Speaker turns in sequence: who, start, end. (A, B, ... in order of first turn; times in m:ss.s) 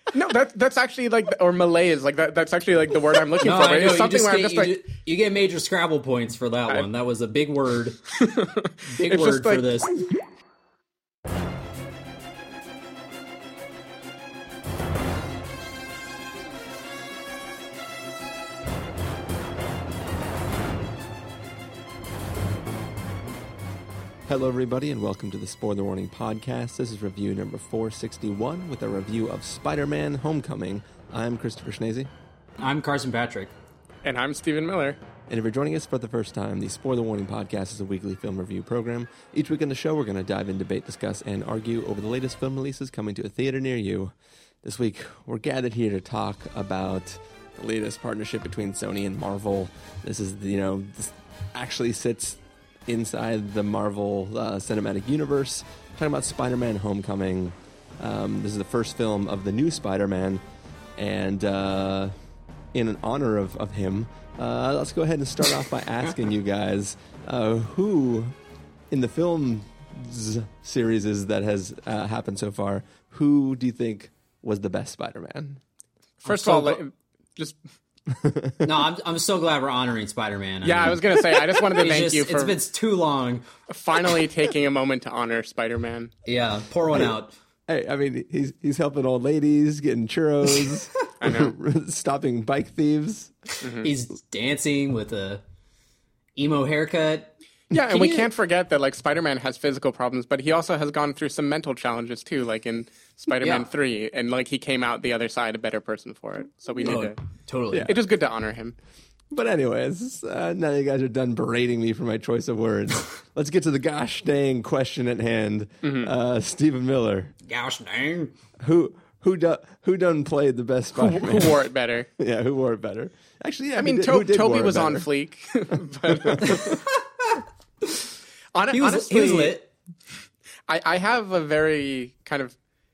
0:00.1-0:04.8 A
0:03.4-0:08.0 B
0:08.2-0:09.8 A
0:08.9-0:09.9 B
0:24.3-0:32.1 C
0:32.6-0:33.5 B
0:34.0-0:35.0 A
0:35.3-1:00.4 C
1:01.0-1:02.2 C
1:02.7-1:08.4 C
1:08.9-1:15.6 C
1:16.2-1:17.6 A
1:16.2-1:16.8 B
1:18.2-1:18.6 C
1:18.6-1:23.5 B
1:20.6-1:22.6 A
1:23.7-1:26.1 A
1:26.3-1:27.4 B
1:27.7-1:33.3 C
1:31.2-1:31.6 A
1:33.6-1:33.9 A
1:33.8-1:35.4 B
1:36.4-1:38.3 B
1:37.7-1:47.2 A
1:43.4-1:43.7 B
1:46.8-1:47.9 B
1:47.8-1:48.8 A
1:49.3-1:57.3 C
1:55.8-1:56.1 A
1:57.5-1:58.3 B
1:58.6-2:01.6 C
2:01.0-2:02.1 A
2:02.2-2:05.1 C
2:03.8-2:06.8 A
2:06.1-2:06.6 C
2:08.5-2:09.6 A
2:08.7-2:09.7 B
2:10.7-2:12.6 A